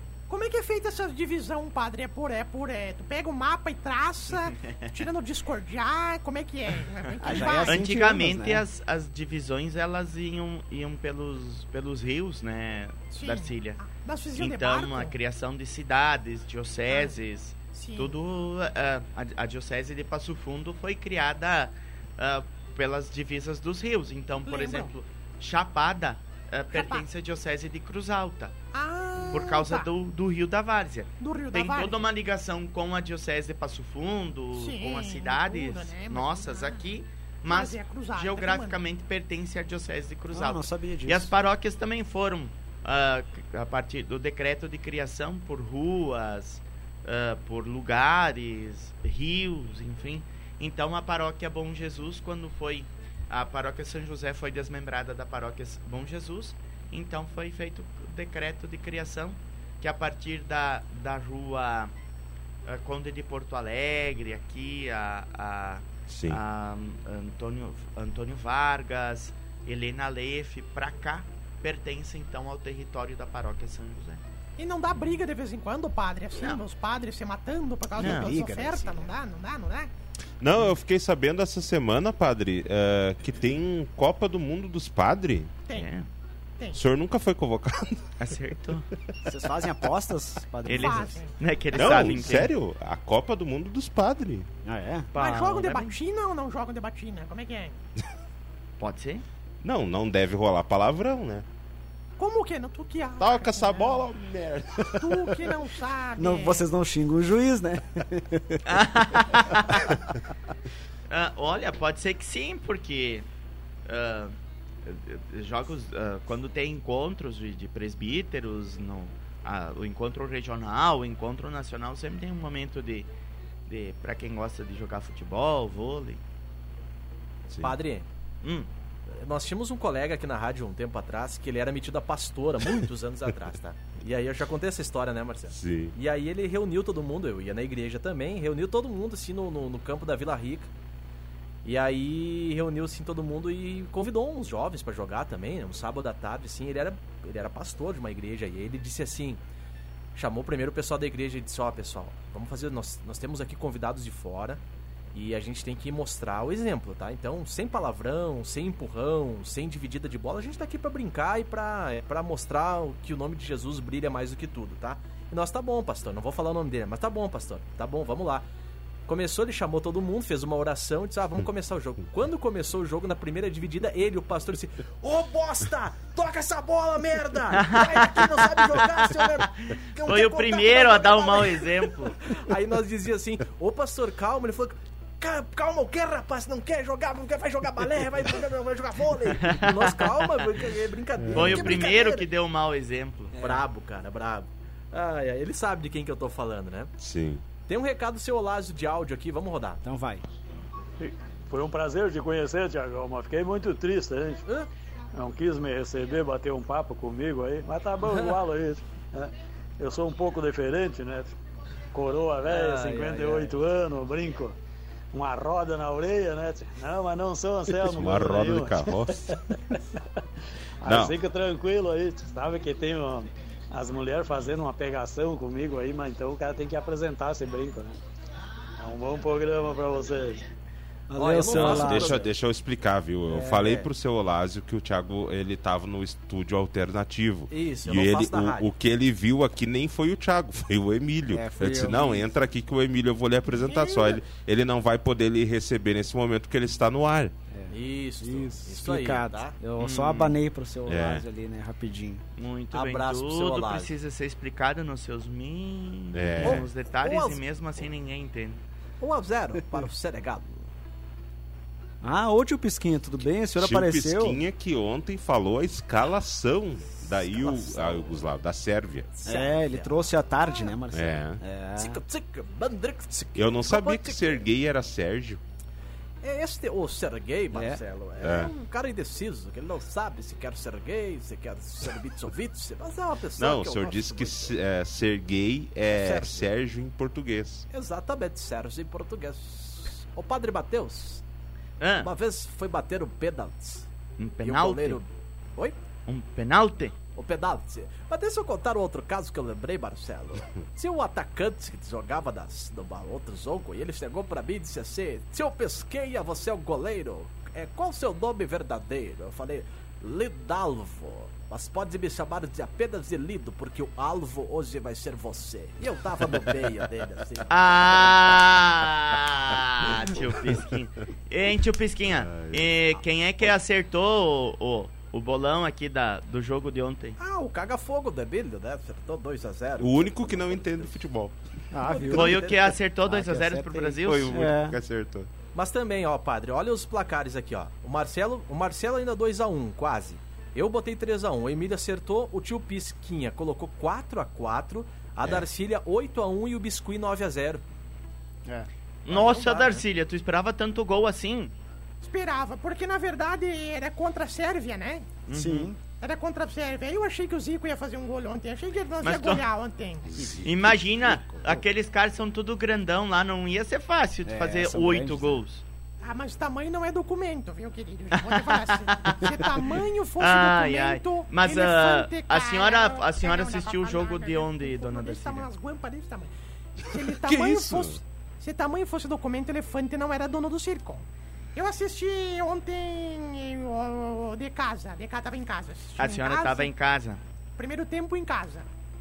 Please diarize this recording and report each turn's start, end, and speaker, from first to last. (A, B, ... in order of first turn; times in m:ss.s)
0:00.3-0:07.8 A
0:04.6-0:05.0 B
0:07.2-0:08.6 C
0:07.3-0:13.8 B
0:13.1-0:15.2 A
0:14.4-0:28.6 B
0:16.9-0:17.2 A
0:17.7-0:18.2 A
0:24.4-0:24.9 A
0:26.7-0:27.1 A
0:28.7-0:29.9 A
0:29.3-1:01.9 B
0:31.2-0:32.0 A
0:34.5-0:36.9 A
0:37.5-0:38.8 A
0:40.3-0:41.3 C
1:02.7-1:14.2 B
1:06.1-1:06.4 D
1:14.6-1:19.9 A
1:16.4-1:16.6 B
1:18.0-1:19.1 C
1:18.0-1:18.3 B
1:20.4-1:25.5 D
1:25.7-1:26.1 B
1:26.7-1:28.1 D
1:28.2-1:28.9 B
1:29.2-1:31.2 C
1:30.6-1:32.5 B
1:30.7-1:31.3 A
1:31.7-1:34.5 D
1:34.6-1:35.1 C
1:35.1-1:35.9 B
1:35.1-1:37.8 A
1:38.8-1:39.2 B
1:39.6-1:41.4 D
1:42.2-1:44.1 A
1:43.2-1:45.4 D
1:44.9-1:46.6 A
1:46.2-1:48.8 C
1:48.6-1:50.0 B
1:51.1-1:53.2 B
1:53.8-2:03.1 B
2:03.7-2:06.2 B
2:07.5-2:07.8 D
2:07.6-2:08.1 E
2:08.4-2:08.7 B
2:09.1-2:20.7 E
2:15.5-2:15.9 D
2:21.6-2:29.4 E
2:30.1-2:48.5 E
2:49.1-3:12.3 E
2:57.5-3:02.2 B
3:09.4-3:10.4 B
3:11.3-3:13.3 B
3:11.4-3:11.7 D
3:13.3-3:16.9 E
3:17.0-3:17.4 D
3:17.6-3:19.8 E
3:19.8-3:20.2 C
3:21.0-3:24.4 F
3:25.1-3:31.3 F
3:28.0-3:28.4 E
3:31.9-3:34.6 F
3:32.5-3:33.5 E
3:35.1-3:39.7 F
3:37.9-3:39.3 D
3:40.8-3:48.0 F
3:40.8-3:41.2 D
3:48.8-3:50.4 F
3:51.1-3:52.3 C
3:51.1-3:52.3 E
3:51.4-4:07.3 D
3:53.3-3:53.9 C
3:57.5-3:58.7 E
4:01.3-4:02.3 C
4:03.5-4:04.2 A
4:07.5-4:12.2 C
4:07.7-4:09.6 E
4:09.8-4:10.4 B
4:10.9-4:11.2 D
4:12.4-4:18.6 B
4:12.7-4:13.9 E
4:16.1-4:16.7 D
4:16.4-4:17.4 E
4:19.0-4:20.7 E
4:22.0-4:24.4 C
4:23.6-4:29.1 D
4:27.5-4:28.0 E
4:29.1-4:30.1 E
4:29.2-4:32.0 C
4:30.9-4:31.4 D
4:31.8-4:34.5 E
4:33.3-4:35.4 D
4:36.2-4:44.6 E
4:37.5-4:37.8 C
4:38.2-4:38.5 D
4:43.4-4:47.6 D
4:45.9-4:46.5 E
4:47.7-4:51.2 E
4:51.8-4:52.1 B
4:52.0-4:53.9 E
4:54.2-4:55.0 B
4:54.4-4:55.8 E
4:56.0-4:57.0 B
4:57.1-5:17.6 E
5:17.5-5:27.2 B
5:19.8-5:20.6 D
5:22.1-5:22.8 D
5:27.2-5:31.0 E
5:29.8-5:31.4 D
5:31.7-5:34.8 C
5:31.9-5:32.5 E
5:32.1-5:34.5 B
5:34.0-5:35.3 D
5:35.5-5:47.6 E
5:49.0-5:51.5 B
5:49.1-5:49.8 E
5:52.0-5:55.1 A
5:55.3-5:55.7 B
5:55.3-5:55.8 C
5:56.0-6:00.1 A
5:59.0-5:59.4 B
6:00.1-6:00.8 D
6:00.2-6:00.5 C
6:00.4-6:05.6 B
6:04.2-6:05.4 C
6:06.0-6:26.7 A
6:08.1-6:09.6 B
6:10.2-6:15.5 B
6:16.9-6:18.0 D
6:26.0-6:27.2 B
6:27.6-6:28.7 A